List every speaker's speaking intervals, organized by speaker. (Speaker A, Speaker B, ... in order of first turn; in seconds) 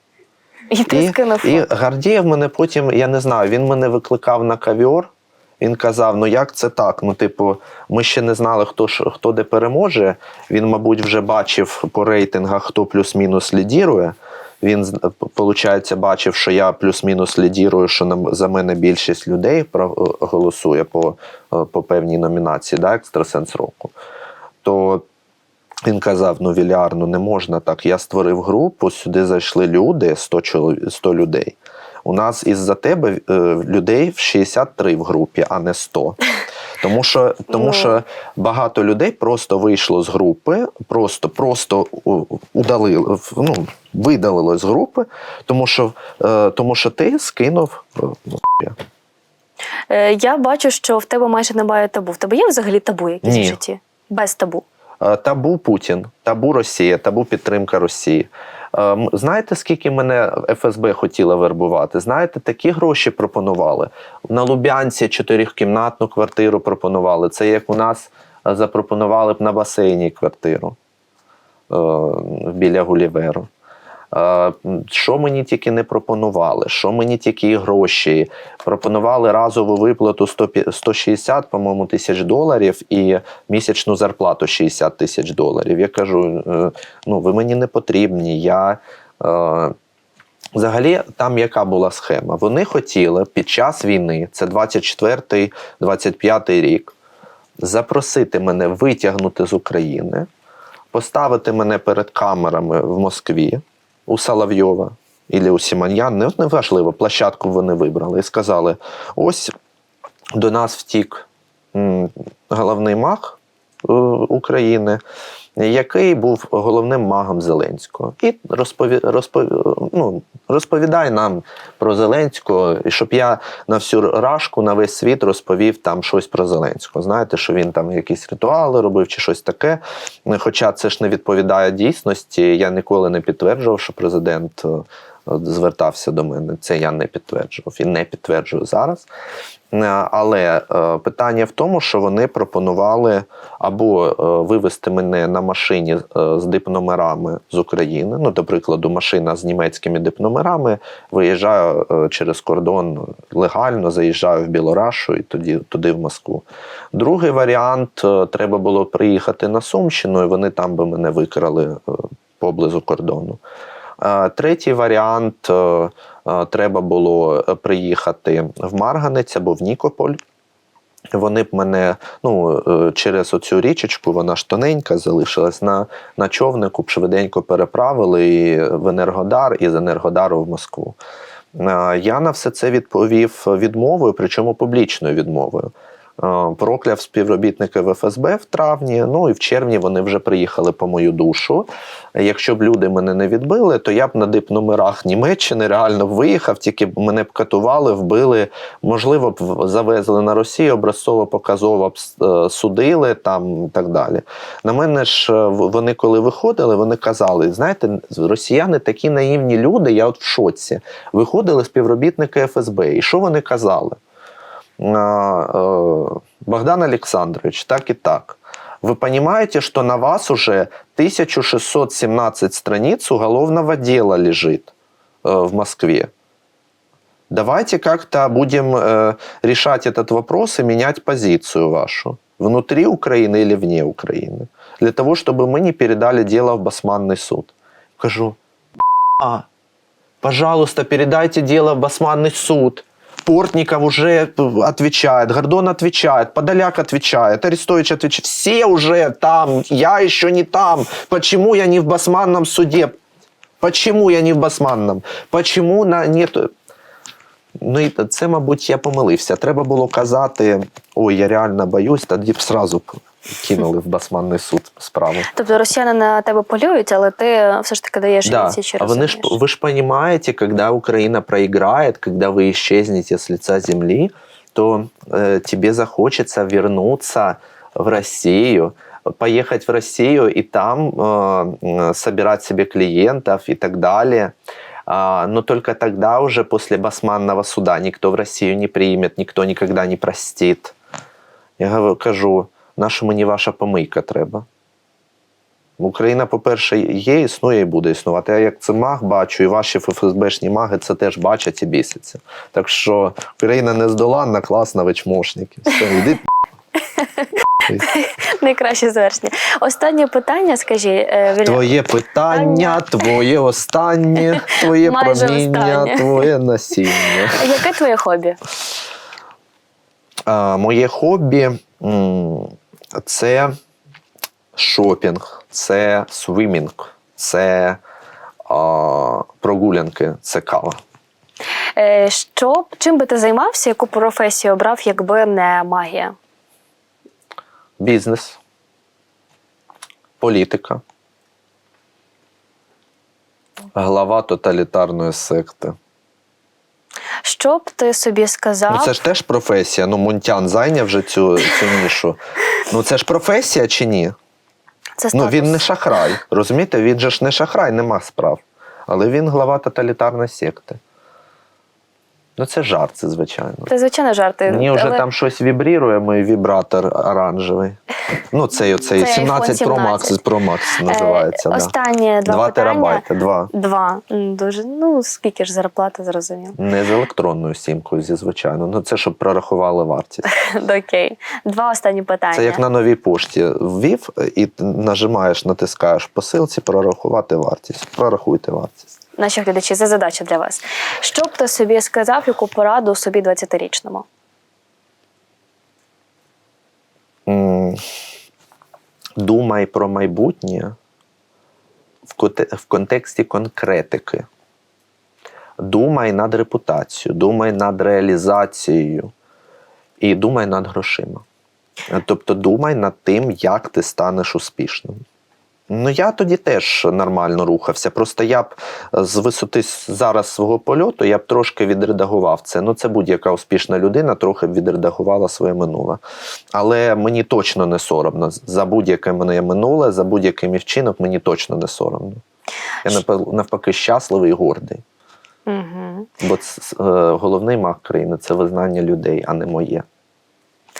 Speaker A: 0.7-1.7, 37.5-37.9, 49.9-54.6, 265.3-269.4, 307.0-311.7, 312.3-313.1, 314.5-316.2, 317.3-318.4, 331.8-336.1, 347.2-348.9, 355.0-355.7, 363.7-365.0, 368.9-370.2, 370.8-376.6, 380.3-382.6, 389.2-394.1, 435.5-436.1
Speaker B: 0.9-23.9, 24.6-25.0, 25.9-36.2, 36.8-48.8, 53.2-53.6, 55.0-70.8, 71.7-73.5, 74.1-89.7, 90.5-96.9, 97.6-100.3, 100.9-109.5, 110.3-115.0, 115.6-139.1, 139.7-163.4, 164.0-170.2, 171.1-181.0, 181.5-214.0, 214.8-224.7, 225.2-226.1, 227.3-238.4, 239.2-239.4, 240.2-252.9, 253.6-256.5, 257.6-265.3, 268.2-284.3, 284.9-290.7, 291.6-294.4, 295.8-306.2, 311.4-317.5, 320.3-323.5, 324.5-327.8, 328.5-330.8, 337.8-338.4, 340.2-340.8, 343.7-345.8, 348.7-354.1, 355.1-360.8, 362.4-363.7, 364.5-367.8, 368.3-371.7, 372.2-373.5, 376.6-380.2, 382.3-388.8, 397.3-397.8, 399.2-400.7, 402.1-404.2, 405.6-409.1, 410.0-411.2, 411.9-415.0, 415.7-426.0, 426.5-432.2, 432.8-434.8, 436.2-439.8